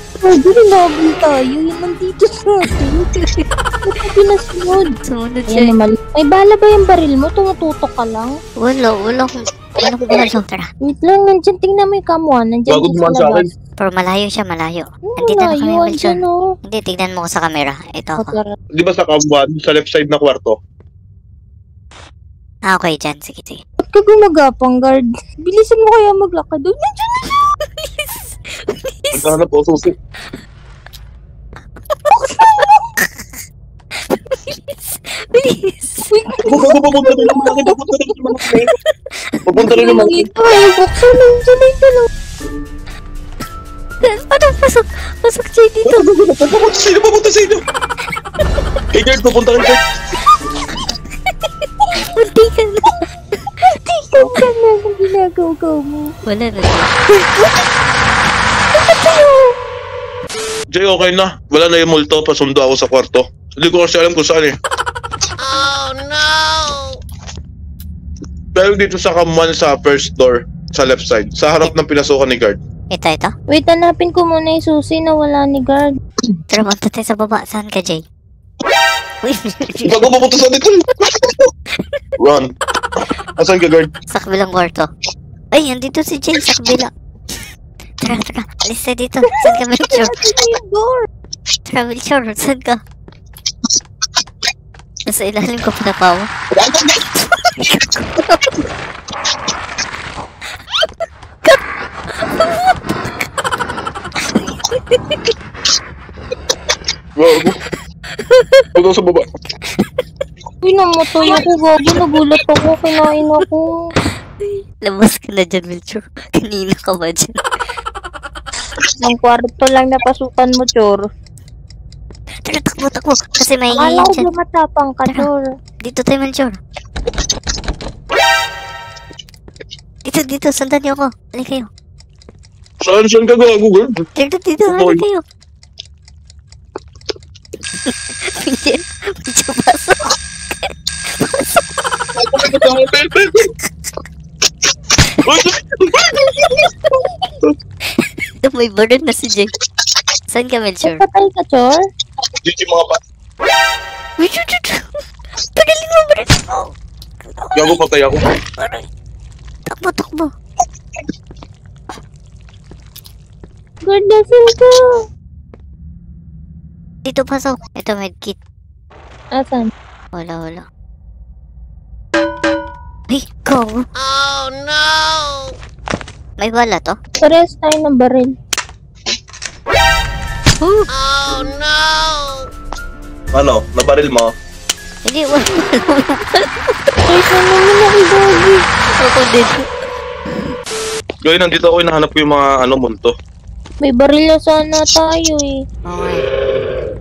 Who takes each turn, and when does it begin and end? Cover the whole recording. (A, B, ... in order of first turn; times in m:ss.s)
0:00.2-0:03.1 A
0:03.1-0:03.4 B
0:03.8-0:04.9 A
0:05.0-0:05.7 B
0:05.5-0:08.3 A
0:08.6-0:10.7 B
0:10.8-0:13.5 A
0:12.7-0:13.5 C
0:13.8-0:18.4 B
0:15.1-0:16.4 A
0:18.2-0:18.5 A
0:18.7-0:20.6 C
0:22.6-0:23.6 B
0:23.8-0:27.4 A
0:27.8-0:29.4 B
0:29.1-0:29.9 C
0:32.2-0:32.8 A
0:32.3-0:33.2 B
0:34.2-0:36.1 B
0:36.1-0:37.8 A
0:36.4-0:38.7 C
0:39.4-0:40.3 C
0:39.6-0:42.1 A
0:44.0-0:46.1 B
0:45.8-0:47.6 C
0:48.9-0:49.8 C
0:51.5-0:53.0 B
0:53.7-0:56.1 A
0:56.2-0:57.4 B
0:58.7-0:59.5 B
1:00.7-1:04.6 C
1:08.5-1:12.6 C
1:12.9-1:13.3 B
1:13.5-1:15.9 A
1:16.5-1:18.0 B
1:19.2-1:20.1 B
1:19.8-1:21.5 C
1:22.2-1:22.5 C
1:23.4-1:23.9 C
1:24.1-1:24.9 B
1:25.5-1:26.9 B
1:28.0-1:30.2 B
1:29.4-1:31.1 A
1:31.6-1:32.8 B
1:35.0-1:36.3 B
1:36.5-1:37.0 C
1:37.6-1:38.5 B
1:42.2-1:42.8 B
1:44.7-1:45.3 B
1:47.2-1:47.6 C
1:48.2-1:48.7 B
1:48.7-1:49.2 C
1:50.6-1:53.6 A
1:54.4-1:57.4 B
1:59.0-2:01.0 A
2:02.4-2:04.2 B
2:03.7-2:05.5 A
2:05.8-2:06.6 B
2:10.0-2:11.7 B
2:12.8-2:14.1 C
2:14.2-2:15.2 B
2:14.6-2:15.0 C
2:17.8-2:21.6 B
2:22.2-2:23.5 C
2:25.2-2:26.3 C
2:26.3-2:26.7 B
2:28.0-2:29.5 B
2:30.3-2:31.0 B
2:30.8-2:31.8 A
2:32.4-2:33.0 C
2:34.2-2:34.9 B
2:35.5-2:37.8 B
2:37.5-2:38.2 C
2:38.5-2:38.8 B
2:39.7-2:40.3 B
2:43.8-2:44.8 A
2:47.0-2:48.4 B
2:49.3-2:49.7 A
2:50.1-2:50.6 B
2:53.1-2:53.9 B
2:56.4-2:57.0 B
2:57.2-2:58.3 A
3:00.6-3:00.9 B
3:03.3-3:04.3 C
3:05.0-3:06.7 B
3:07.0-3:08.6 A
3:08.9-3:09.7 B
3:11.2-3:13.1 C
3:13.8-3:15.5 A
3:15.8-3:16.2 B